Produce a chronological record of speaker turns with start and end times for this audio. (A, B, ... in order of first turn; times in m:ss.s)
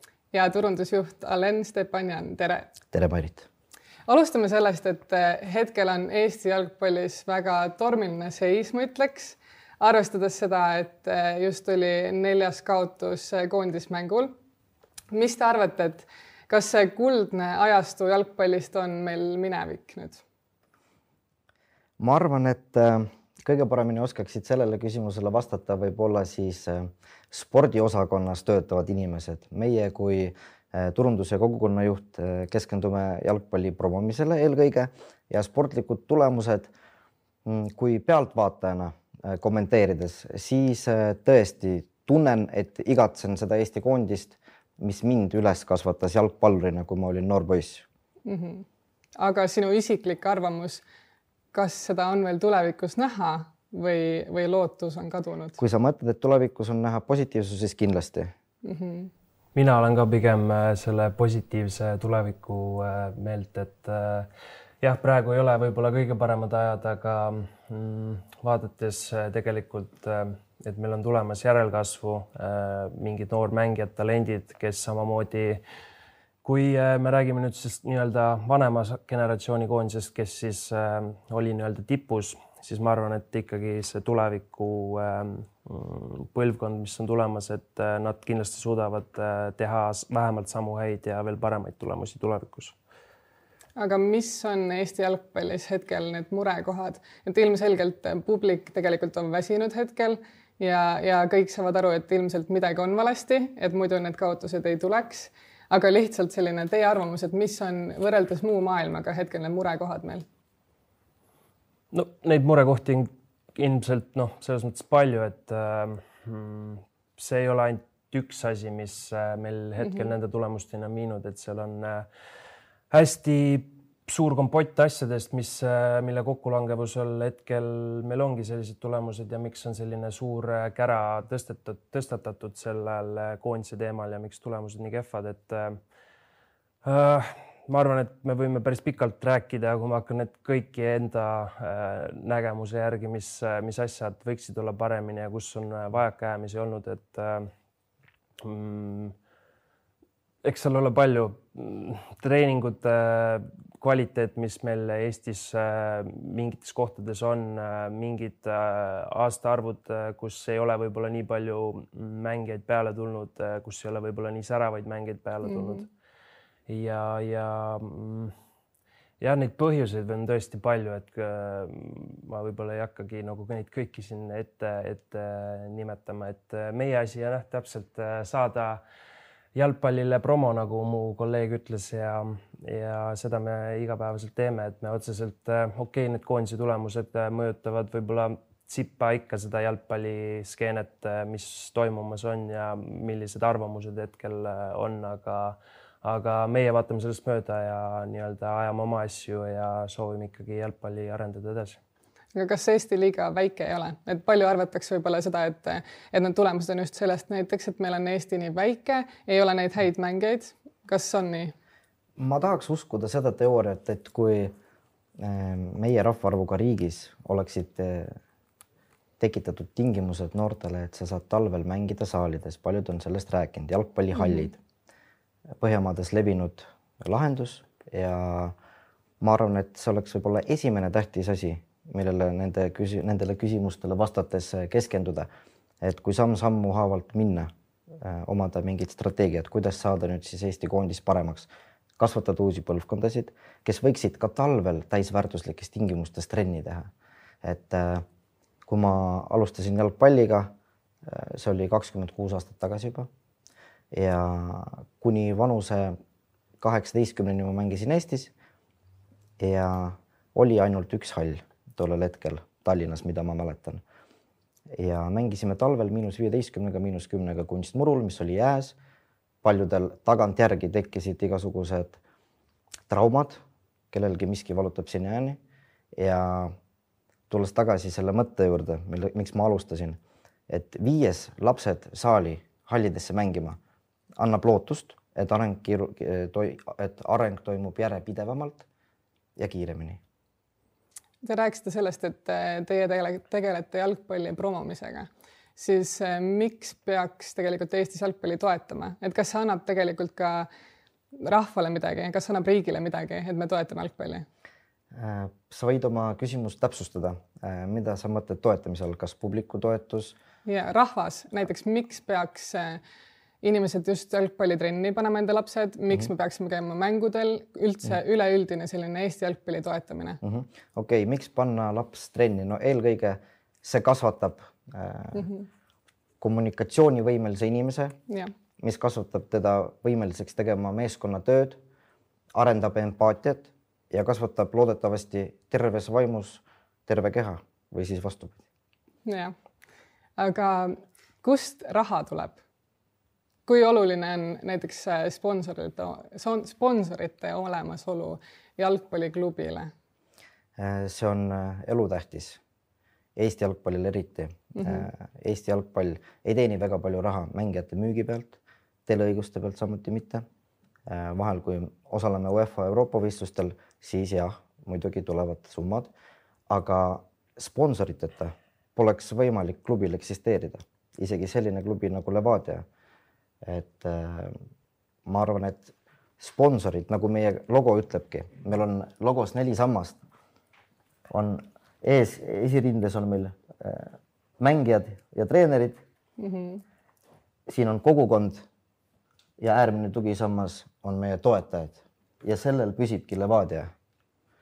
0:00.3-0:02.7 A
0:02.9-0:03.5 B
0:04.1-0:14.3 A
0:15.1-0:20.2 A
0:22.0-0:36.7 B
0:37.4-0:47.9 B
0:48.3-0:48.7 A
0:49.2-0:50.8 A
0:51.5-0:55.6 A
0:55.6-0:58.3 B
0:58.6-0:59.1 A
0:59.6-1:04.3 C
1:04.8-1:15.6 C
1:16.4-1:32.8 C
1:33.8-1:50.2 A
1:51.9-2:02.1 C
2:02.9-2:15.8 C
2:16.8-2:27.5 C
2:28.4-2:29.2 C
2:30.4-2:45.9 C
2:45.4-2:45.8 A
2:46.7-2:48.3 C
2:49.2-2:58.8 C
2:59.6-3:21.8 C
3:22.4-3:31.5 A
3:32.2-3:34.6 B
3:35.2-3:38.2 B
3:39.2-3:44.6 B
3:44.2-3:44.5 A
3:45.6-3:48.6 B
3:49.2-3:55.3 B
3:55.8-4:06.9 B
4:07.4-4:08.0 B
4:08.7-4:10.5 B
4:11.0-4:13.1 B
4:13.9-4:16.0 B
4:16.6-4:18.3 B
4:19.4-4:23.8 B
4:24.7-4:28.8 B
4:29.4-4:32.0 B
4:32.9-4:33.4 B
4:33.9-4:35.4 B
4:36.0-4:36.6 B
4:37.3-4:43.6 B
4:44.2-4:48.7 B
4:49.4-4:50.0 B
4:51.2-5:00.5 A
5:01.2-5:04.3 A
5:04.9-5:10.2 B
5:10.5-5:12.8 A
5:13.4-5:20.2 A
5:20.2-5:25.3 B
5:25.2-5:25.5 A
5:26.2-5:28.0 B
5:28.6-5:31.6 B
5:32.3-5:38.4 B
5:39.0-5:39.4 A
5:40.2-5:42.4 A
5:43.5-5:49.7 A
5:50.6-5:52.4 B
5:53.2-6:00.2 B
5:54.6-5:54.9 A
6:00.9-6:05.9 B
6:06.5-6:12.6 B
6:13.4-6:14.4 B
6:15.1-6:20.0 B
6:21.1-6:25.8 B
6:26.2-6:26.6 A
6:27.5-6:28.4 B
6:29.4-6:33.7 B